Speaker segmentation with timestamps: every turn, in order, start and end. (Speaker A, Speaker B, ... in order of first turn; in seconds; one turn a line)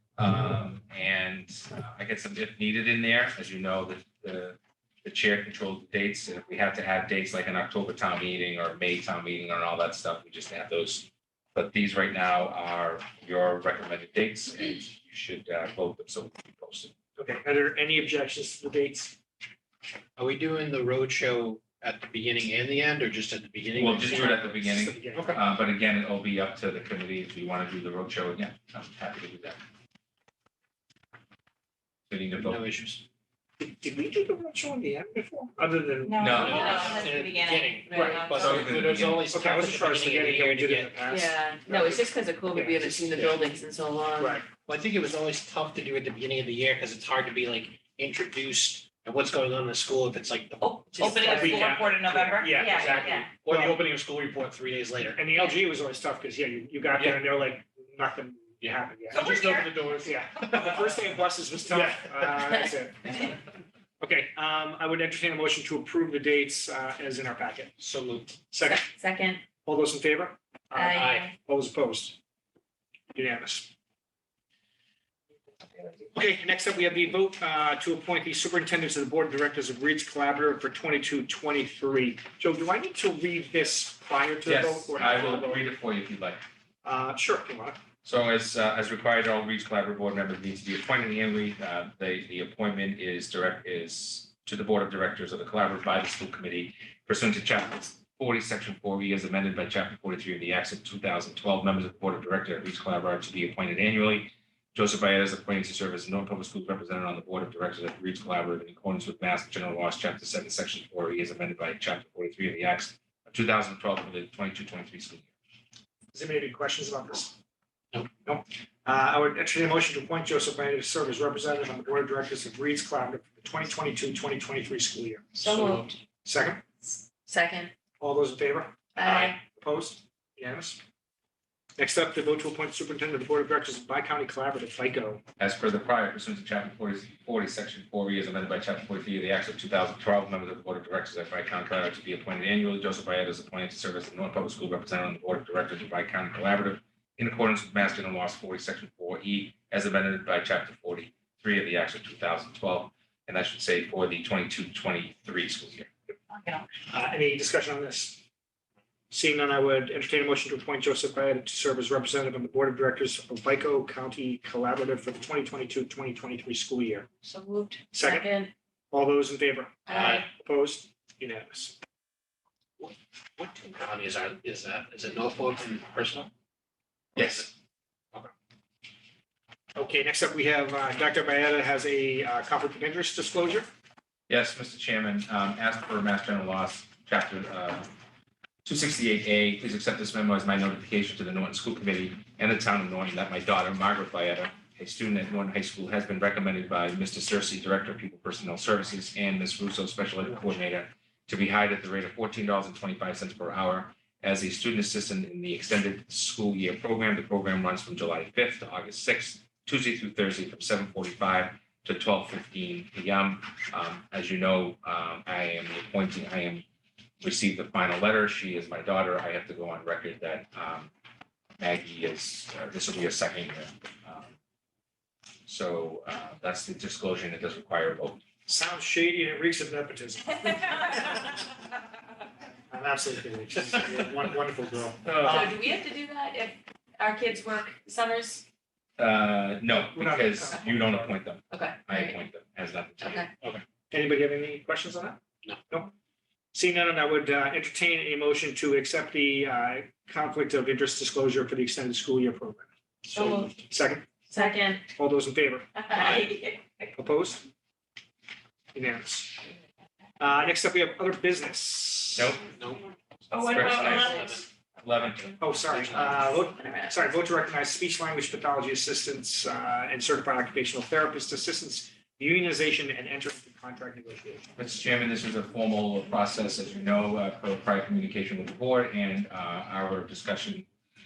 Speaker A: 0.2-16.9
Speaker B: 17.2-19.2
Speaker C: 20.2-24.6
Speaker A: 23.8-29.6
Speaker B: 24.0-25.4
Speaker C: 25.1-25.4
Speaker A: 32.1-32.7
Speaker C: 32.4-33.0
Speaker B: 33.6-37.1
Speaker D: 36.1-38.7
Speaker A: 36.2-37.0
Speaker C: 36.3-41.0
Speaker B: 37.9-38.2
Speaker A: 38.4-39.3
Speaker B: 39.3-41.7
Speaker D: 41.1-44.4
Speaker C: 41.7-43.5
Speaker B: 44.2-44.5
Speaker C: 44.6-55.3
Speaker D: 50.6-53.3
Speaker B: 51.0-53.8
Speaker B: 55.2-59.3
Speaker C: 57.0-57.2
Speaker C: 58.6-61.2
Speaker D: 59.1-59.8
Speaker B: 60.0-63.4
Speaker C: 61.7-62.4
Speaker B: 64.0-67.7
Speaker C: 67.8-68.4
Speaker B: 68.5-68.8
Speaker D: 68.7-69.4
Speaker B: 69.6-72.2
Speaker D: 70.8-71.3
Speaker C: 71.0-71.3
Speaker B: 73.1-73.7
Speaker B: 76.1-85.7
Speaker A: 84.4-86.4
Speaker B: 86.8-87.8
Speaker A: 88.0-115.3
Speaker B: 116.1-117.4
Speaker B: 118.2-125.7
Speaker D: 125.3-126.0
Speaker C: 125.5-125.8
Speaker B: 126.2-126.6
Speaker D: 126.8-127.7
Speaker B: 128.0-130.8
Speaker D: 129.0-129.4
Speaker B: 131.8-135.2
Speaker A: 135.4-155.9
Speaker D: 156.3-156.7
Speaker B: 156.9-158.2
Speaker B: 159.1-167.1
Speaker D: 167.2-168.5
Speaker B: 167.9-168.4
Speaker B: 168.9-171.8
Speaker D: 169.9-170.2
Speaker C: 169.9-170.2
Speaker C: 172.8-176.3
Speaker C: 177.2-177.5
Speaker A: 177.2-177.5
Speaker B: 179.8-183.7
Speaker A: 184.3-187.9
Speaker A: 188.7-216.7
Speaker A: 217.2-220.9
Speaker A: 221.6-224.3
Speaker A: 225.5-228.2
Speaker B: 228.5-231.4
Speaker B: 232.7-235.6
Speaker C: 235.1-235.4
Speaker D: 235.2-238.4
Speaker A: 239.0-243.3
Speaker B: 239.7-241.1
Speaker D: 241.5-242.1
Speaker D: 243.0-243.3
Speaker B: 243.9-245.2
Speaker B: 246.5-252.7
Speaker C: 253.1-253.5
Speaker D: 253.1-253.5
Speaker B: 253.5-254.1
Speaker D: 254.3-254.8
Speaker B: 254.9-256.0
Speaker D: 255.8-256.9
Speaker A: 255.9-256.3
Speaker B: 257.0-257.5
Speaker B: 258.7-259.5
Speaker B: 260.2-262.4
Speaker A: 262.1-262.4
Speaker C: 262.4-264.5
Speaker D: 263.3-264.4
Speaker A: 263.4-266.2
Speaker B: 265.4-274.5
Speaker C: 265.7-266.4
Speaker D: 266.5-266.9
Speaker A: 274.6-280.7